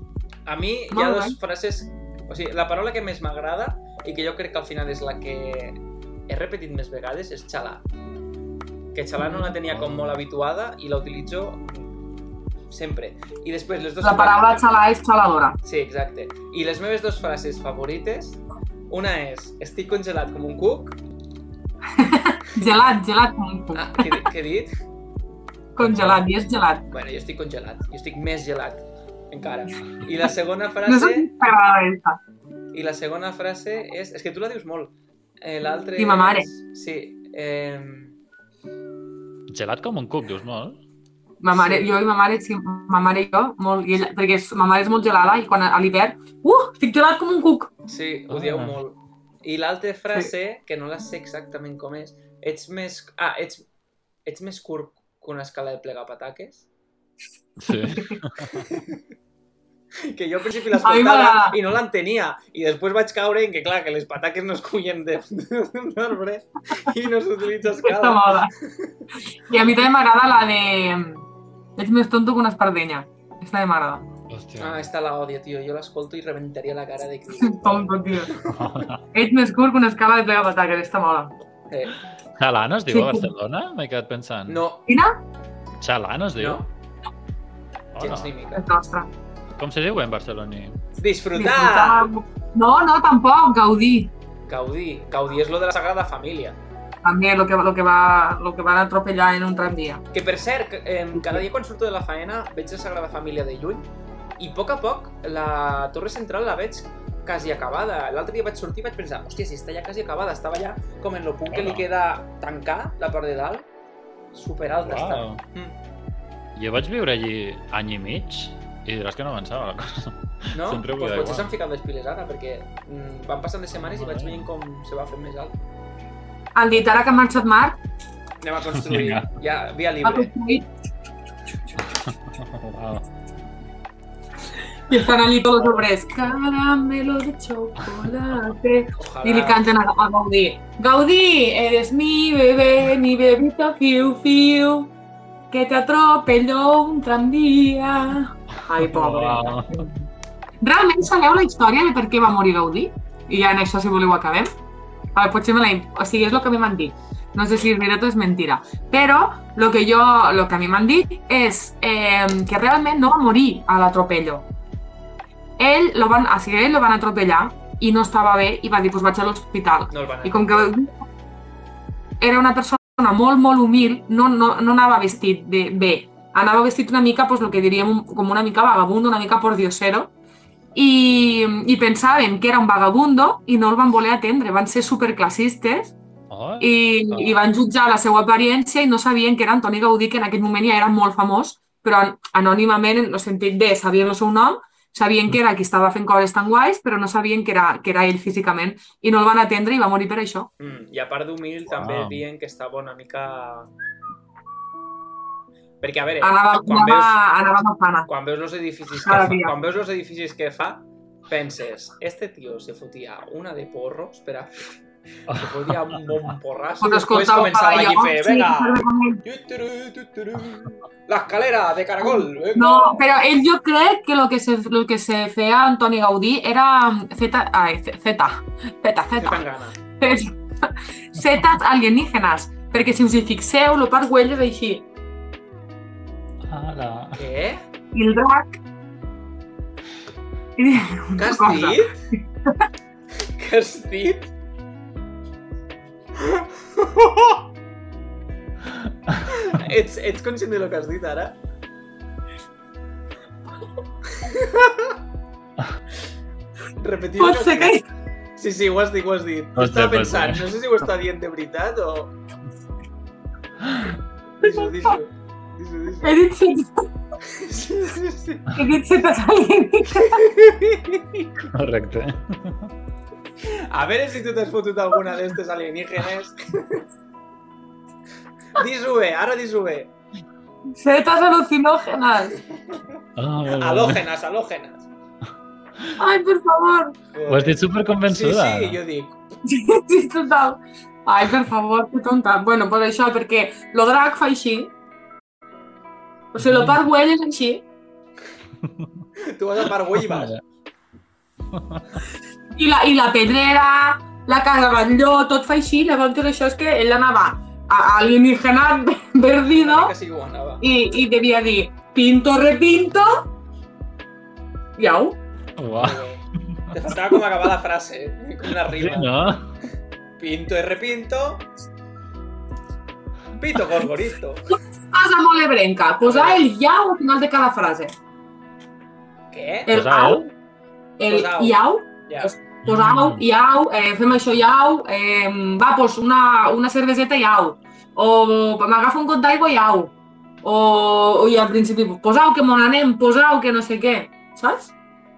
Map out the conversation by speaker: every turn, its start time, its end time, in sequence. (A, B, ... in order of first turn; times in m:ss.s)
0:00.4-0:07.8 A
0:00.9-0:01.4 B
0:08.9-0:11.9 A
0:09.7-0:10.2 C
0:12.7-0:14.7 A
0:14.0-0:15.6 B
0:15.6-0:21.0 A
0:22.0-0:24.2 B
0:23.7-0:24.7 A
0:25.7-0:26.8 B
0:25.8-0:26.2 C
0:26.9-0:31.3 A
0:30.8-0:32.2 B
0:32.7-0:38.1 A
0:36.0-0:36.5 B
0:39.5-0:40.8 C
0:41.4-0:47.7 B
0:41.5-0:41.9 A
0:47.9-0:53.6 A
0:48.3-0:48.7 C
0:54.2-0:56.6 A
0:57.6-0:58.7 C
0:57.9-0:58.2 B
0:58.6-0:59.0 A
1:00.0-1:09.0 A
1:00.8-1:01.6 B
1:07.8-1:08.5 B
1:09.5-1:14.1 B
1:14.3-1:14.8 C
1:14.6-1:18.5 A
1:17.4-1:18.3 B
1:18.4-1:19.0 C
1:19.1-1:21.3 B
1:21.7-1:21.9 A
1:22.4-1:24.6 C
1:22.9-1:23.3 B
1:24.5-1:24.8 A
1:24.9-1:25.2 B
1:25.8-1:26.6 C
1:26.4-1:26.7 A
1:27.9-1:28.3 C
1:28.0-1:28.6 A
1:28.5-1:29.1 B
1:29.6-1:30.8 C
1:31.0-1:32.1 A
1:31.4-1:34.1 B
1:34.4-1:36.6 A
1:37.0-1:40.0 B
1:40.1-1:53.7 A
1:51.5-1:51.8 C
1:54.3-1:55.8 A
1:54.8-1:55.4 C
1:56.5-2:01.5 C
2:00.5-2:05.5 A
2:03.8-2:04.5 C
2:06.5-2:07.8 B
2:08.4-2:10.3 A
2:08.8-2:09.3 C
2:10.0-2:10.7 B
2:11.9-2:13.1 C
2:14.8-2:24.9 B
2:17.8-2:18.1 C
2:19.0-2:19.7 A
2:25.5-2:30.0 B
2:28.8-2:29.9 C
2:30.6-2:34.5 B
2:35.1-2:44.5 B
2:45.6-2:50.9 B
2:49.9-2:50.7 A
2:52.2-3:00.1 B
3:00.7-3:06.0 B
3:06.3-3:07.4 C
3:06.6-3:20.5 B
3:20.6-3:23.7 A
3:21.7-3:22.2 C
3:25.8-3:27.2 A
3:26.2-3:28.1 B
3:28.1-3:34.7 A
3:29.0-3:29.5 B
3:35.3-3:43.0 A
3:36.8-3:39.2 B
3:42.5-3:49.4 B
3:49.2-3:49.8 A
3:50.0-3:54.8 B
3:56.4-3:57.2 C
3:57.1-3:57.6 A
3:57.9-3:58.6 B
4:00.6-4:01.8 B
4:01.2-4:01.9 A
4:03.2-4:04.3 A
4:06.1-4:07.4 A
4:08.8-4:09.2 C
4:09.3-4:11.4 A
4:14.1-4:15.0 A
4:16.8-4:17.8 A
4:17.2-4:17.8 B
4:18.4-4:22.1 A
4:19.6-4:20.5 C
4:23.6-4:24.0 C
4:24.4-4:26.2 A
4:24.4-4:24.9 B
4:26.0-4:26.9 B
4:27.2-4:28.5 A
4:28.5-4:30.2 B
4:30.0-4:31.3 A
4:31.4-4:32.7 C
4:33.4-4:36.8 A
4:38.5-4:39.9 A
4:40.7-4:42.4 B
4:43.2-4:44.0 C
4:43.5-4:44.8 A
4:46.0-4:46.9 B
4:47.1-4:49.2 A
4:47.3-4:48.8 C
4:49.4-4:54.7 B
4:56.3-4:57.6 B
4:56.4-4:56.8 C
4:58.6-4:59.0 C
4:59.2-5:00.3 A
5:00.0-5:00.4 C
5:01.5-5:01.9 C
5:02.5-5:09.9 B
5:09.6-5:10.6 A
5:10.6-5:13.2 B
5:14.8-5:15.2 B
5:15.6-5:16.0 C
5:15.7-5:19.1 A
5:18.7-5:19.5 C
5:20.2-5:21.5 A
5:23.4-5:24.5 A
5:24.9-5:27.9 B
5:26.0-5:26.4 A
5:29.3-5:29.7 A
5:29.7-5:30.3 B
5:29.7-5:30.3 C
5:31.0-5:44.7 B
5:31.1-5:32.3 A
5:32.6-5:33.2 C